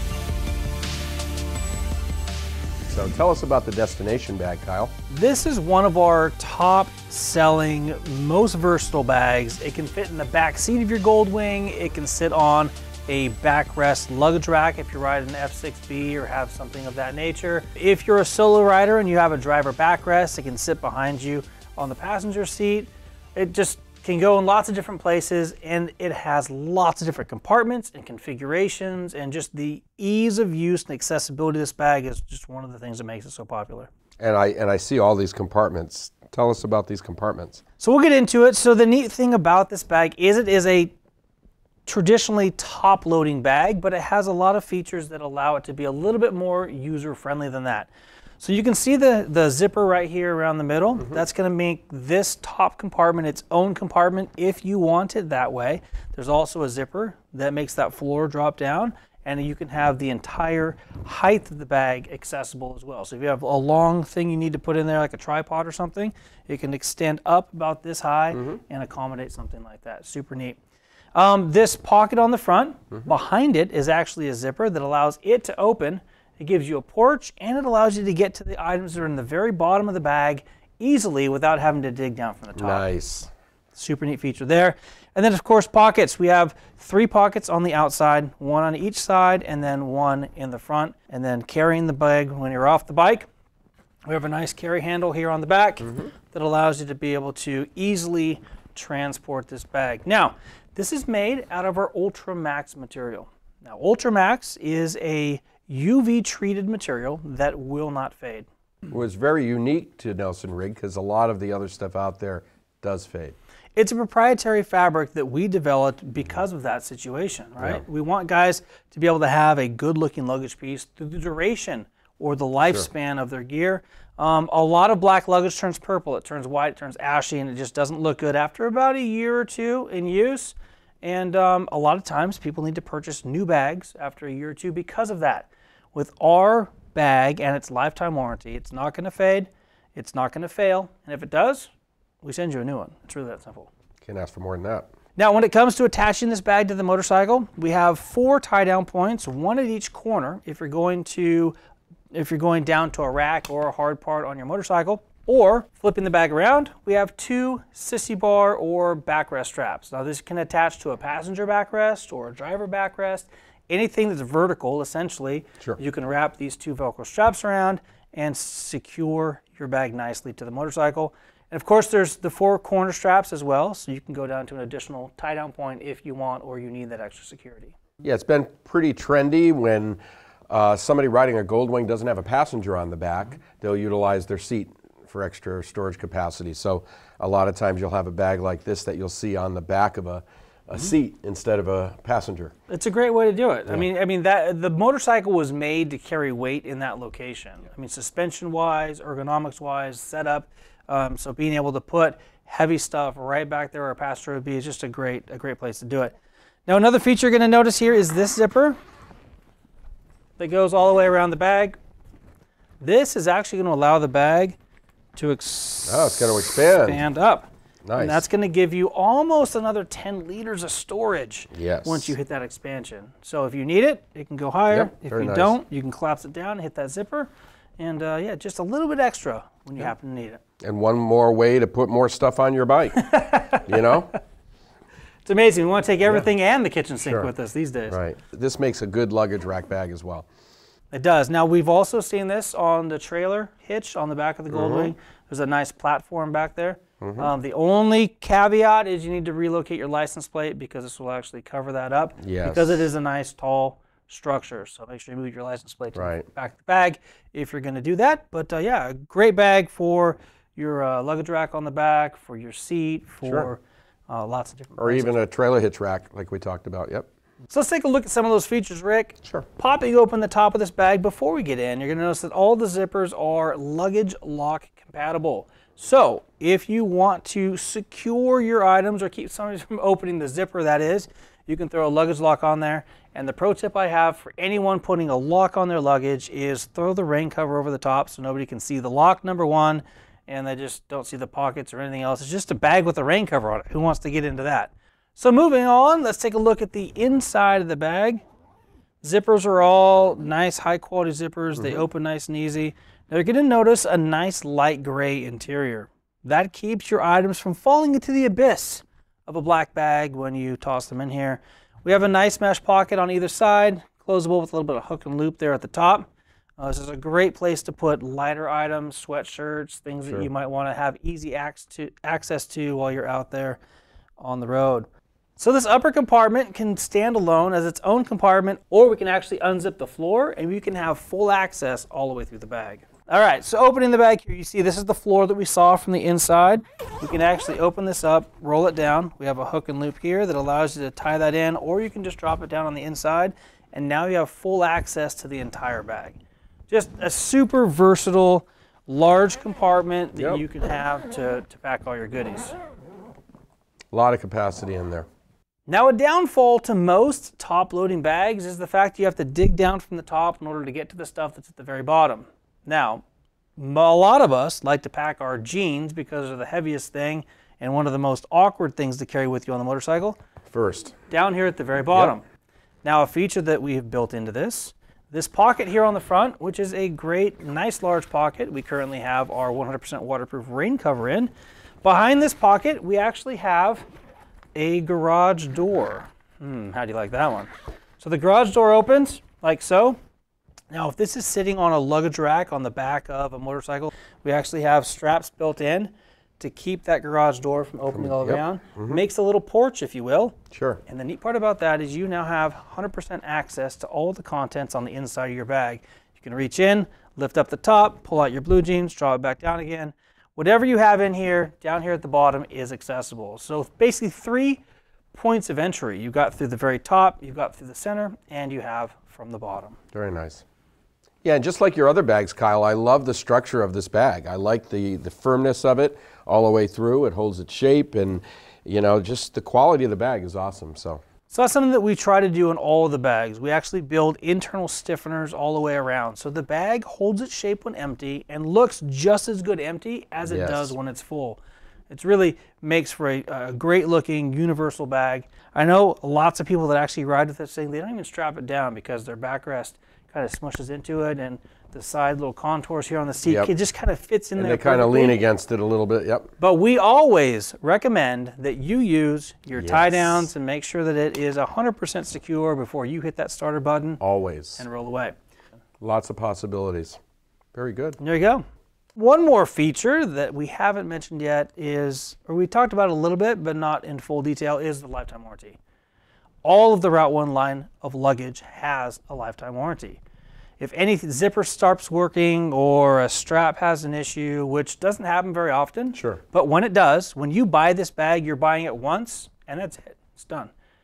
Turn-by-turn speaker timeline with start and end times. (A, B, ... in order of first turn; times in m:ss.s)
0:02.9-0:04.9 A
0:05.1-0:33.9 B
0:34.2-0:37.6 A
0:37.8-0:40.9 B
0:41.8-1:10.6 B
1:11.1-1:22.8 B
1:22.5-1:23.3 A
1:23.7-1:33.3 B
1:34.1-1:48.5 B
1:48.9-1:53.4 A
1:53.8-2:21.7 B
2:22.2-2:23.7 B
2:24.0-2:24.9 A
2:25.2-2:31.6 B
2:32.1-2:57.7 B
2:58.0-3:12.5 A
3:12.7-3:26.1 B
3:26.6-3:28.8 B
3:30.4-3:31.8 B
3:32.8-3:34.6 B
3:35.1-3:50.4 B
3:35.8-3:37.0 A
3:37.8-3:38.2 A
3:41.5-3:42.1 A
3:44.7-3:45.6 A
3:50.6-3:53.0 A
3:53.0-3:54.1 B
3:53.6-3:54.1 A
3:55.2-3:58.0 B
3:57.0-3:57.3 A
3:57.9-4:00.2 A
4:00.9-4:25.2 B
4:04.5-4:04.9 A
4:07.0-4:07.3 A
4:12.2-4:12.9 A
4:16.0-4:16.3 A
4:23.2-4:23.5 A
4:24.8-4:27.1 A
4:27.5-4:58.2 B
4:59.0-5:23.6 B
5:24.2-5:46.2 B
5:46.7-5:52.6 B
5:50.2-5:50.4 A
5:53.9-5:55.1 A
5:55.7-6:03.0 B
6:03.6-6:10.2 B
6:10.5-6:11.0 A
6:11.1-6:12.2 B
6:12.8-6:23.8 B
6:24.5-6:30.0 B
6:30.7-6:59.8 B
6:37.9-6:39.0 A
6:40.5-6:40.8 A
6:59.9-7:00.4 A
7:01.2-7:11.0 A
7:11.3-7:21.4 B
7:20.2-7:20.8 A
7:21.9-7:35.2 B
7:33.2-7:33.5 A
7:34.4-7:36.3 A
7:36.4-7:44.0 B
7:39.5-7:40.3 A
7:44.0-7:44.6 A
7:44.6-7:45.1 B
7:45.8-7:47.0 A
7:47.5-7:48.0 A
7:48.0-7:55.6 B
7:56.4-8:00.0 B
8:00.6-8:10.5 B
8:05.9-8:06.2 A